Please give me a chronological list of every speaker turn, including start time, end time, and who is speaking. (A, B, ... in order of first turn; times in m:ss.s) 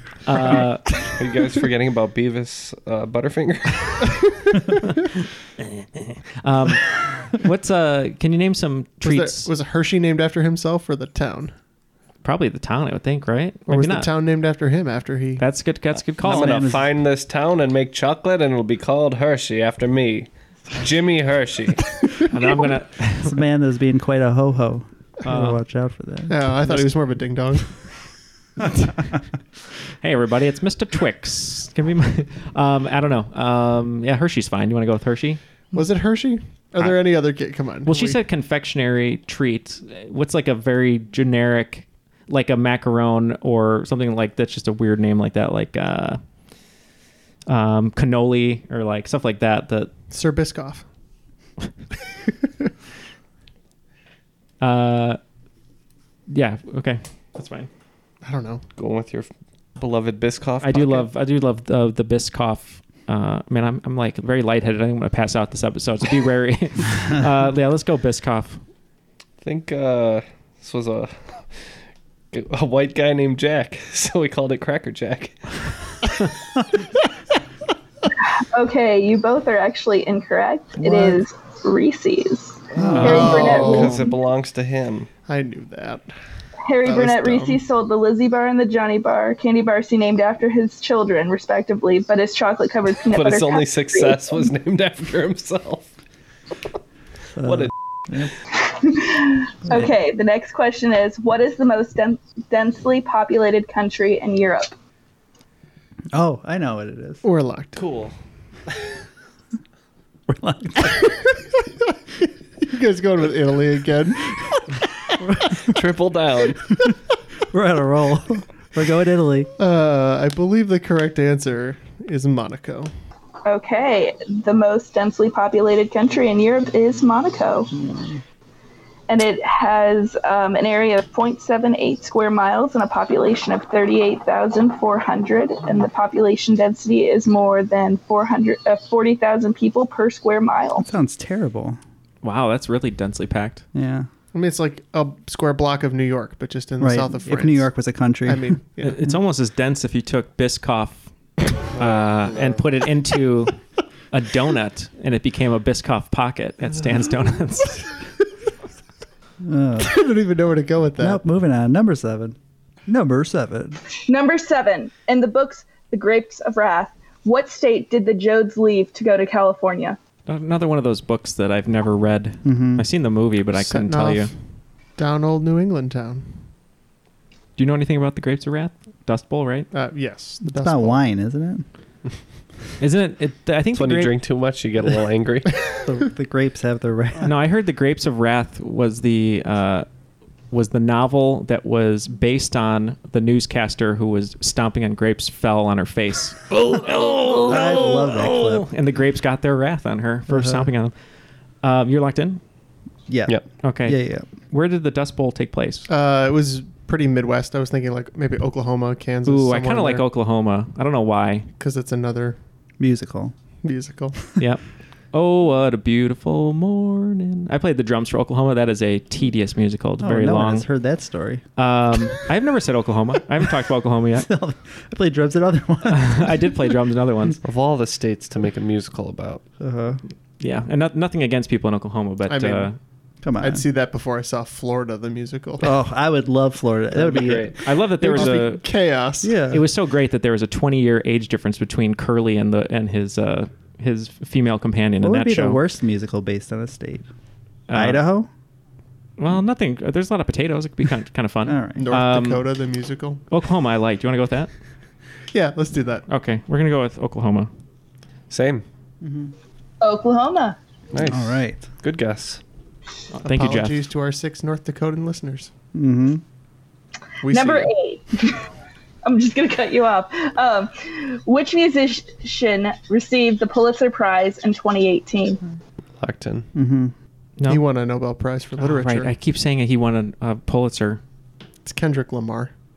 0:00.2-0:00.9 A
0:01.2-0:04.0 B
0:05.6-0:09.5 A
0:09.0-0:11.5 C
0:12.2-0:14.1 A
0:13.7-0:15.4 C
0:15.4-0:16.7 A
0:16.2-0:21.8 B
0:16.2-0:16.8 D
0:22.3-0:23.4 A
0:23.2-0:26.5 D
0:25.2-0:25.6 A
0:26.3-0:27.7 C
0:30.0-0:35.4 A
0:35.7-0:38.2 C
0:37.8-0:46.2 A
0:47.5-0:49.9 A
0:50.1-0:50.8 C
0:54.6-0:55.2 A
0:56.3-0:57.7 A
0:58.2-0:58.6 C
0:58.8-1:01.0 B
1:00.6-1:08.6 A
1:09.4-1:11.7 B
1:12.3-1:15.4 B
1:18.4-1:23.8 E
1:20.8-1:21.2 D
1:22.8-1:25.1 B
1:22.8-1:24.0 D
1:22.9-1:23.3 A
1:23.0-1:24.0 C
1:25.3-1:26.1 C
1:26.6-1:34.4 E
1:26.8-1:27.6 C
1:33.1-1:35.9 B
1:37.4-1:38.3 D
1:37.4-1:37.7 B
1:38.8-1:44.7 E
1:46.1-1:47.2 D
1:47.2-1:47.8 C
1:47.8-1:48.1 B
1:50.3-1:51.1 D
1:52.7-1:54.2 C
1:55.7-1:56.6 B
1:57.5-1:59.5 D
1:59.6-2:02.9 C
2:03.4-2:07.7 E
2:07.7-2:08.2 D
2:09.1-2:20.8 E
2:20.8-2:21.8 D
2:22.2-2:23.6 A
2:23.7-2:24.1 D
2:24.3-2:27.6 C
2:26.8-2:28.6 D
2:28.3-2:29.0 C
2:28.8-2:31.1 A
2:31.7-2:33.6 A
2:31.8-2:32.6 B
2:34.1-2:38.0 A
2:39.4-2:40.0 D
2:39.8-2:41.2 C
2:41.0-2:42.4 D
2:42.9-2:43.8 D
2:44.0-2:50.0 E
2:50.3-2:54.3 A
2:52.4-2:52.8 D
2:53.5-2:54.3 C
2:55.0-2:56.3 C
2:57.6-2:59.7 A
2:59.7-3:01.0 C
3:00.4-3:01.6 D
3:02.8-3:04.2 A
3:03.7-3:05.5 B
3:05.8-3:07.3 D
3:07.2-3:09.8 A
3:10.5-3:20.9 A
3:17.5-3:18.6 D
3:20.3-3:20.7 D
3:21.6-3:22.4 A
3:23.1-3:24.3 D
3:23.6-3:24.0 A
3:24.5-3:25.9 A
3:25.9-3:30.0 C
3:29.2-3:31.5 A
3:31.6-3:32.4 C
3:32.8-3:33.3 D
3:33.6-3:34.2 C
3:34.4-3:34.6 A
3:35.1-3:40.7 A
3:40.0-3:41.4 D
3:41.6-3:44.3 A
3:44.2-3:46.5 D
3:45.9-3:47.4 A
3:47.4-3:49.4 B
3:49.6-3:50.0 D
3:50.4-3:52.8 A
3:52.3-3:52.7 C
3:53.2-3:53.6 D
3:53.4-3:55.7 C
3:55.6-3:57.5 D
3:57.0-3:57.6 B
3:57.6-3:58.6 A
3:58.0-3:59.3 C
3:58.2-3:58.4 D
3:59.2-3:59.6 D
3:59.5-4:05.6 A
4:05.0-4:07.0 D
4:07.7-4:08.0 A
4:07.7-4:08.3 D
4:09.2-4:12.4 A
4:11.4-4:11.8 D
4:11.8-4:13.2 C
4:13.3-4:14.5 A
4:15.3-4:16.0 C
4:16.1-4:17.5 A
4:18.3-4:18.6 B
4:19.0-4:19.3 D
4:19.8-4:20.6 E
4:20.9-4:22.4 B
4:21.0-4:21.7 D
4:23.1-4:23.8 A
4:23.2-4:25.5 C
4:25.7-4:26.2 D
4:27.2-4:27.7 C
4:27.3-4:28.4 E
4:29.0-4:35.4 E
4:36.0-4:36.5 B
4:36.5-4:36.9 D
4:37.5-4:39.1 C
4:38.6-4:41.0 A
4:41.6-4:42.5 C